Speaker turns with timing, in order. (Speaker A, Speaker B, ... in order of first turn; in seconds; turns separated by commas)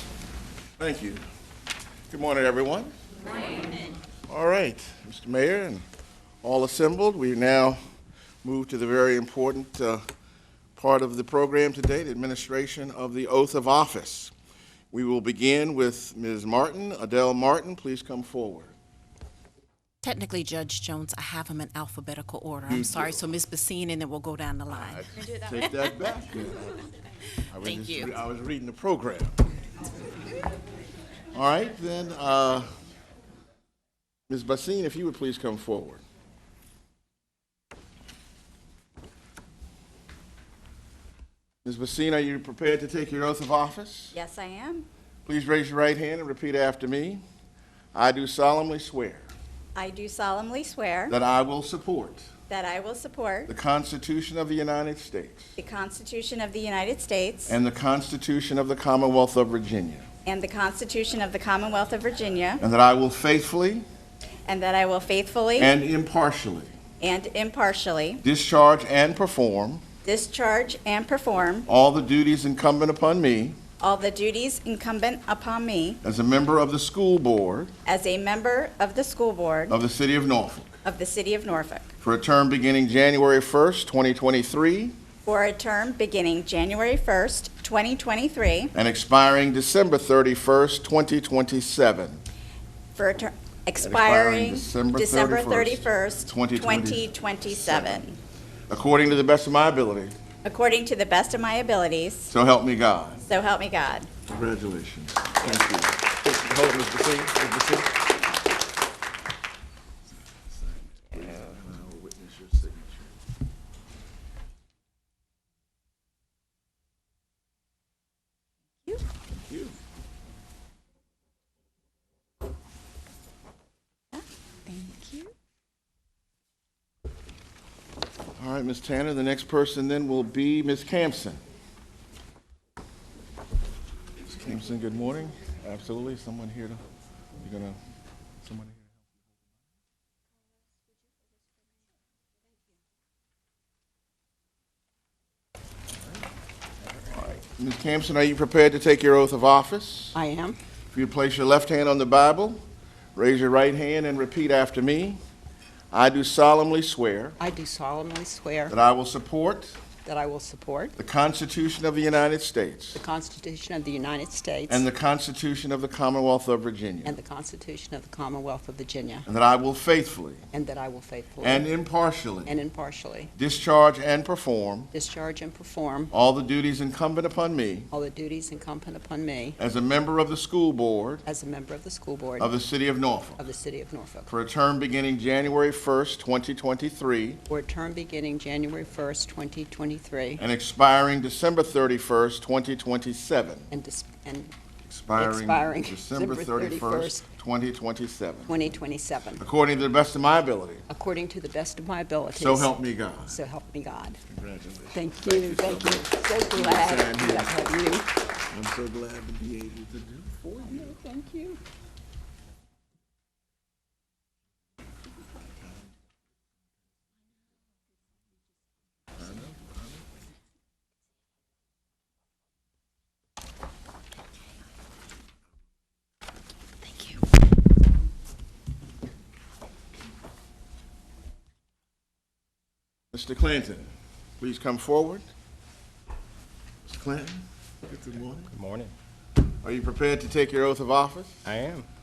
Speaker A: 0.8-1.2, Speaker A: 2.1-2.9, Speaker A: 4.3-5.8, Speaker A: 6.4-7.8, Speaker A: 8.4-10.0, Speaker A: 10.8-14.3, Speaker A: 14.9-18.7, Speaker B: 20.0-25.2, Speaker A: 22.7-23.3, Speaker A: 24.7-26.7, Speaker A: 27.5-29.4, Speaker B: 27.6-28.2, Speaker A: 31.3-32.7, Speaker A: 34.3-36.0, Speaker A: 41.6-44.1, Speaker C: 44.1-44.9, Speaker A: 45.3-47.2, Speaker A: 47.9-49.3, Speaker C: 49.7-51.2, Speaker A: 51.1-52.3, Speaker C: 52.5-53.5, Speaker A: 53.5-55.5, Speaker C: 55.6-57.6, Speaker A: 57.5-60.1, Speaker C: 60.3-62.6, Speaker A: 62.6-63.9, Speaker C: 64.5-65.7, Speaker A: 65.6-66.8, Speaker C: 67.0-68.2, Speaker A: 68.2-69.8, Speaker C: 70.0-71.7, Speaker A: 71.7-73.6, Speaker C: 73.8-76.0, Speaker A: 76.0-77.7, Speaker C: 77.8-79.8, Speaker A: 79.7-80.8, Speaker C: 80.8-81.9, Speaker A: 82.0-85.0, Speaker C: 85.3-88.7, Speaker A: 88.7-92.2, Speaker C: 93.0-98.2, Speaker A: 93.8-98.0, Speaker A: 98.7-100.2, Speaker C: 100.4-102.3, Speaker A: 102.3-103.2, Speaker C: 103.3-104.1, Speaker A: 104.3-107.9, Speaker A: 110.6-113.1, Speaker A: 119.5-119.8, Speaker C: 124.1-125.3, Speaker A: 128.4-131.4, Speaker A: 134.2-136.8, Speaker A: 137.4-137.8, Speaker A: 138.4-139.0, Speaker A: 147.1-150.2, Speaker D: 150.1-150.6, Speaker A: 150.9-152.6, Speaker A: 153.2-155.2, Speaker A: 155.9-157.4, Speaker D: 157.4-158.8, Speaker A: 158.7-159.8, Speaker D: 160.1-160.9, Speaker A: 161.0-163.0, Speaker D: 162.9-164.9, Speaker A: 164.7-167.2, Speaker D: 167.0-169.3, Speaker A: 169.3-170.4, Speaker D: 170.5-171.7, Speaker A: 171.4-172.6, Speaker D: 172.4-173.3, Speaker A: 173.3-174.9, Speaker D: 174.9-176.1, Speaker A: 176.1-177.9, Speaker D: 177.9-179.6, Speaker A: 179.6-181.2, Speaker D: 181.2-182.5, Speaker A: 182.4-183.4, Speaker D: 183.4-184.3, Speaker A: 184.3-187.4, Speaker D: 187.5-190.4, Speaker A: 190.4-193.7, Speaker D: 193.7-194.5, Speaker A: 194.8-198.6, Speaker D: 195.2-197.3, Speaker D: 198.5-199.4, Speaker A: 199.4-200.8, Speaker D: 200.9-202.8, Speaker A: 202.3-203.4, Speaker D: 203.3-204.2, Speaker A: 204.3-207.6, Speaker D: 204.9-208.1, Speaker A: 208.5-211.0, Speaker D: 210.6-211.6, Speaker A: 219.2-220.0, Speaker D: 226.9-227.2, Speaker A: 233.1-235.2, Speaker A: 236.8-238.5, Speaker B: 238.5-238.9, Speaker A: 239.6-241.4, Speaker B: 241.4-241.8